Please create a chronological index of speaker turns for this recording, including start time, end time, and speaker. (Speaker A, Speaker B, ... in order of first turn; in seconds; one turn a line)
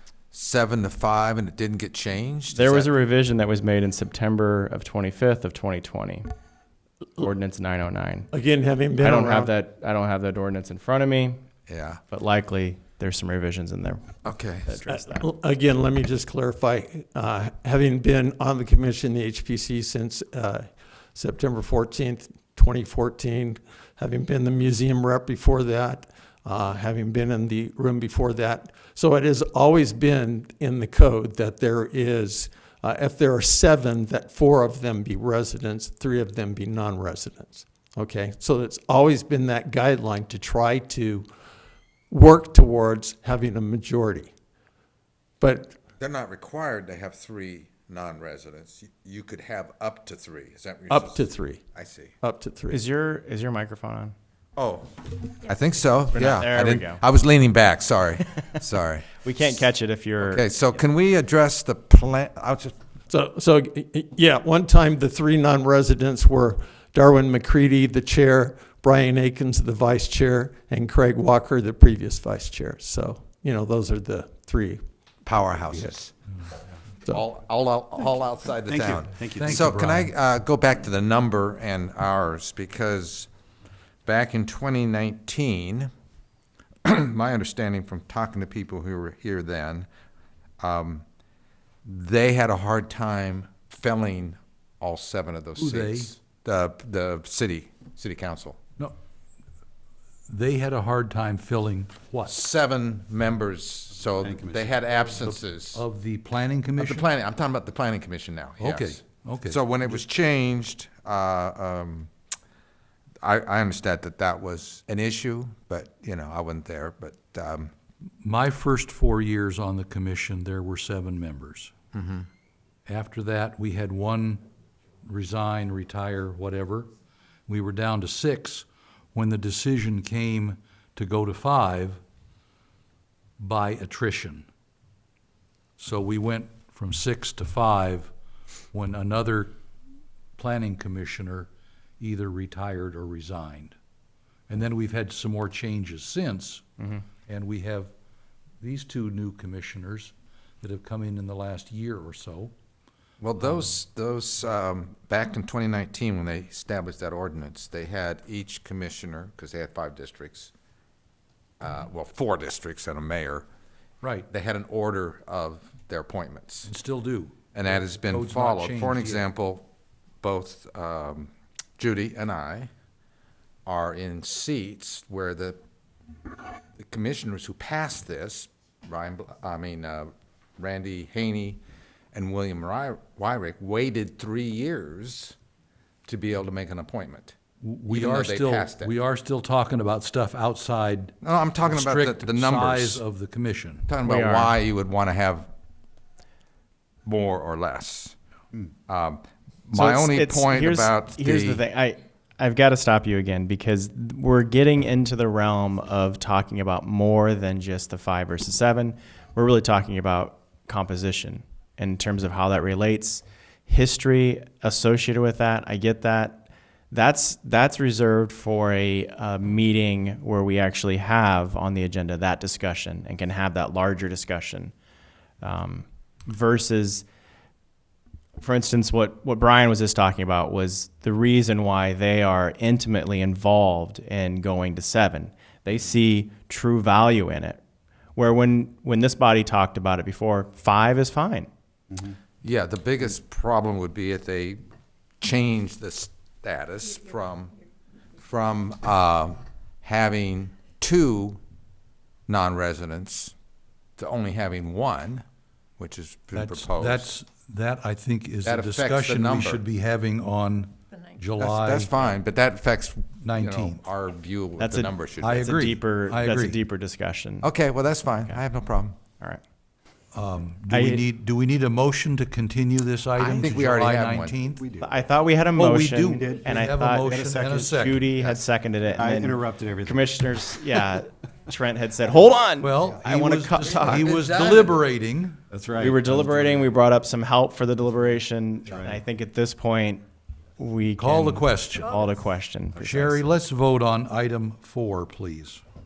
Speaker A: 0.3-2.9
Speaker B: 2.5-6.3
Speaker B: 7.2-8.3
Speaker C: 8.3-9.5
Speaker B: 9.0-11.4
Speaker A: 11.7-12.0
Speaker B: 12.1-15.3
Speaker A: 14.2-14.8
Speaker C: 14.9-41.3
Speaker C: 42.1-44.3
Speaker C: 45.4-45.8
Speaker A: 46.0-52.1
Speaker C: 50.9-51.6
Speaker C: 52.2-52.8
Speaker B: 52.7-54.1
Speaker A: 54.6-59.2
Speaker B: 56.1-57.0
Speaker B: 59.2-60.5
Speaker A: 60.2-62.8
Speaker C: 63.1-74.8
Speaker A: 75.2-76.1
Speaker A: 77.1-83.3
Speaker D: 78.7-79.5
Speaker E: 79.2-80.1
Speaker A: 84.1-85.9
Speaker A: 86.8-89.9
Speaker A: 90.6-91.0
Speaker A: 91.8-98.6
Speaker E: 95.6-96.1
Speaker E: 100.3-102.3
Speaker A: 102.3-105.8
Speaker D: 104.2-104.7
Speaker E: 105.2-107.1
Speaker A: 106.8-112.1
Speaker E: 108.6-109.6
Speaker A: 113.2-117.7
Speaker E: 118.2-121.7
Speaker A: 121.9-122.3
Speaker E: 122.9-124.5
Speaker E: 125.0-126.9
Speaker E: 127.5-132.0
Speaker E: 133.4-134.5
Speaker E: 135.8-138.1
Speaker E: 138.7-139.6
Speaker E: 140.4-141.5
Speaker E: 142.0-143.8
Speaker E: 144.5-146.6
Speaker E: 147.3-147.9
Speaker E: 148.6-152.5
Speaker A: 153.2-160.5
Speaker A: 161.6-163.5
Speaker E: 164.0-164.3
Speaker A: 164.3-166.7
Speaker E: 166.7-169.3
Speaker A: 167.5-169.7
Speaker A: 170.2-172.7
Speaker A: 173.7-175.6
Speaker A: 176.8-181.6
Speaker A: 182.1-185.4
Speaker A: 186.1-187.4
Speaker E: 187.6-193.9
Speaker A: 187.9-188.9
Speaker A: 191.2-193.0
Speaker A: 193.9-195.5
Speaker B: 194.0-194.6
Speaker A: 197.1-198.2
Speaker A: 198.9-201.6
Speaker B: 199.7-224.7
Speaker B: 225.4-227.1
Speaker B: 228.4-237.6
Speaker B: 238.2-241.5
Speaker A: 242.4-244.6
Speaker A: 245.2-247.6
Speaker A: 248.2-251.4
Speaker A: 252.3-253.3
Speaker A: 254.0-255.2
Speaker A: 255.8-257.1
Speaker E: 256.3-261.9
Speaker A: 258.4-259.6
Speaker A: 261.4-265.5
Speaker E: 263.2-263.8
Speaker B: 264.6-267.5
Speaker E: 265.2-266.6
Speaker A: 267.4-269.0
Speaker E: 270.1-274.6
Speaker B: 270.7-271.0
Speaker A: 273.2-274.4
Speaker D: 274.6-274.9
Speaker B: 274.8-284.1
Speaker E: 275.6-278.1
Speaker D: 277.1-278.4
Speaker D: 278.9-280.1
Speaker E: 282.6-285.4
Speaker A: 283.9-284.8
Speaker D: 285.5-286.6
Speaker B: 285.8-290.0
Speaker D: 288.7-288.9
Speaker B: 290.6-293.2
Speaker E: 291.0-292.0
Speaker E: 292.8-295.6